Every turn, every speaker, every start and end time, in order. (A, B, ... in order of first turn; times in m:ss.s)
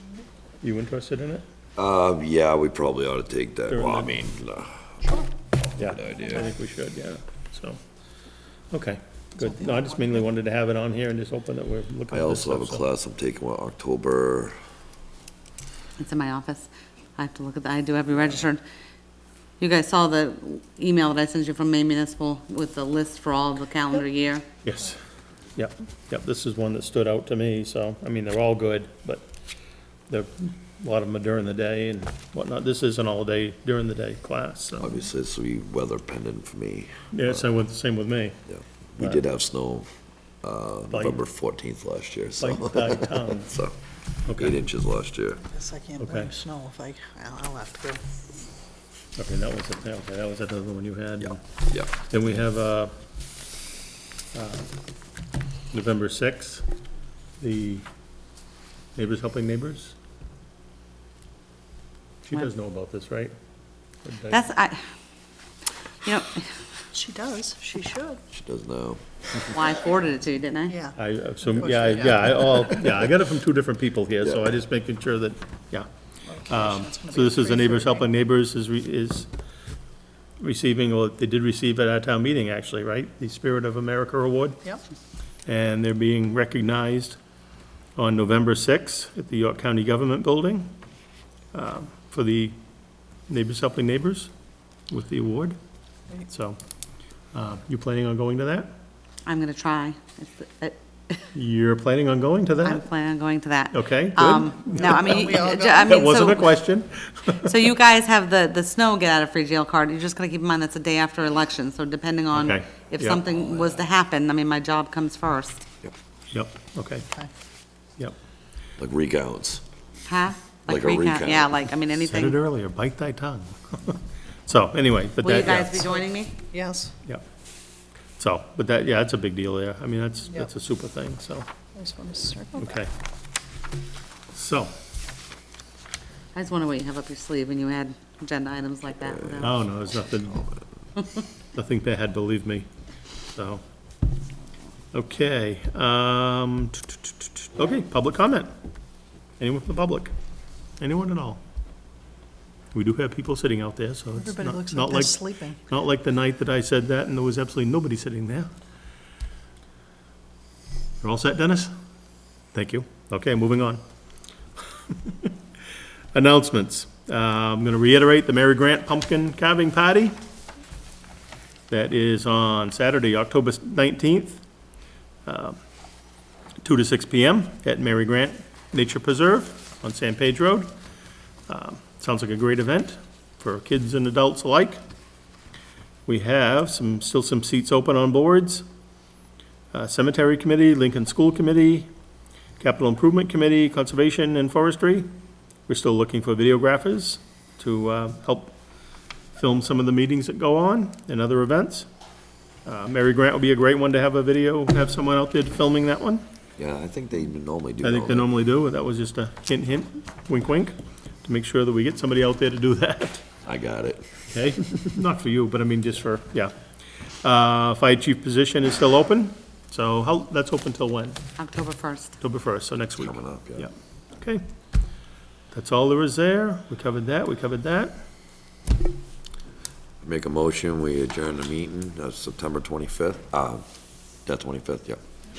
0:00.6-0:01.4 A
0:01.8-0:05.2 B
0:03.7-0:04.1 A
0:05.7-0:06.5 B
0:05.8-0:07.8 A
0:08.7-0:12.8 A
0:09.4-0:10.1 C
0:12.1-0:14.6 B
0:16.0-0:18.6 D
0:19.6-0:24.4 D
0:24.6-0:25.0 A
0:25.6-0:29.3 A
0:30.1-0:35.0 A
0:34.8-0:37.4 B
0:37.1-0:38.4 A
0:38.5-0:39.9 B
0:40.4-0:43.8 B
0:40.9-0:41.2 A
0:42.4-0:43.5 A
0:44.2-0:44.6 A
0:44.3-0:45.4 B
0:45.5-0:48.0 C
0:46.0-0:46.3 A
0:49.2-0:51.4 A
0:51.2-0:52.0 B
0:52.0-0:52.9 A
0:54.3-0:54.7 A
0:55.7-0:56.6 A
0:57.4-0:57.8 A
0:59.0-1:00.0 A
1:02.3-1:03.3 A
1:04.0-1:04.5 A
1:04.3-1:04.8 D
1:06.0-1:06.5 D
1:06.9-1:08.2 C
1:08.3-1:09.0 B
1:09.5-1:10.8 D
1:10.7-1:12.7 C
1:11.0-1:15.9 A
1:16.3-1:18.1 C
1:16.5-1:19.3 A
1:20.4-1:24.6 A
1:25.5-1:27.2 A
1:28.0-1:30.7 A
1:31.5-1:32.6 A
1:33.3-1:34.3 A
1:34.9-1:35.6 A
1:36.3-1:36.6 A
1:37.3-1:38.7 A
1:39.3-1:41.3 D
1:41.3-1:42.8 A
1:42.6-1:46.6 D
1:43.7-1:47.6 A
1:44.7-1:45.9 C
1:47.4-1:55.6 D
1:52.3-1:53.3 A
1:56.3-1:57.1 A
1:58.8-1:59.6 B
2:00.1-2:02.4 D
2:00.7-2:01.7 B
2:02.1-2:06.0 A
2:05.2-2:06.3 D
2:06.5-2:07.0 C
2:08.2-2:11.5 A
2:11.8-2:12.9 C
2:12.6-2:12.9 A
2:14.3-2:14.7 A
2:16.3-2:19.5 D
2:19.1-2:19.5 B
2:19.4-2:20.5 A
2:20.3-2:20.6 B
2:21.6-2:22.7 A
2:23.3-2:23.6 A
2:24.9-2:28.5 A
2:29.4-2:30.1 A
2:30.8-2:31.4 A
2:32.7-2:38.5 A
2:34.2-2:35.6 C
2:41.0-2:41.7 A
2:42.5-2:43.8 A
2:44.9-2:45.4 A
2:46.1-2:50.2 A
2:51.7-2:54.4 A
2:55.3-2:55.6 A
2:56.6-3:00.7 A
3:01.5-3:04.8 A
3:06.1-3:08.6 A
3:09.7-3:11.9 A
3:12.6-3:15.1 A
3:15.7-3:18.6 A
3:19.4-3:21.9 A
3:22.6-3:26.2 A
3:26.6-3:28.3 B
3:27.8-3:33.3 A
3:33.4-3:34.2 B
3:34.3-3:36.6 A
3:37.2-3:41.2 A
3:41.4-3:42.2 D
3:42.2-3:44.4 A
3:43.0-3:43.7 B
3:45.5-3:48.0 A
3:50.0-3:53.6 B
3:54.3-3:55.0 B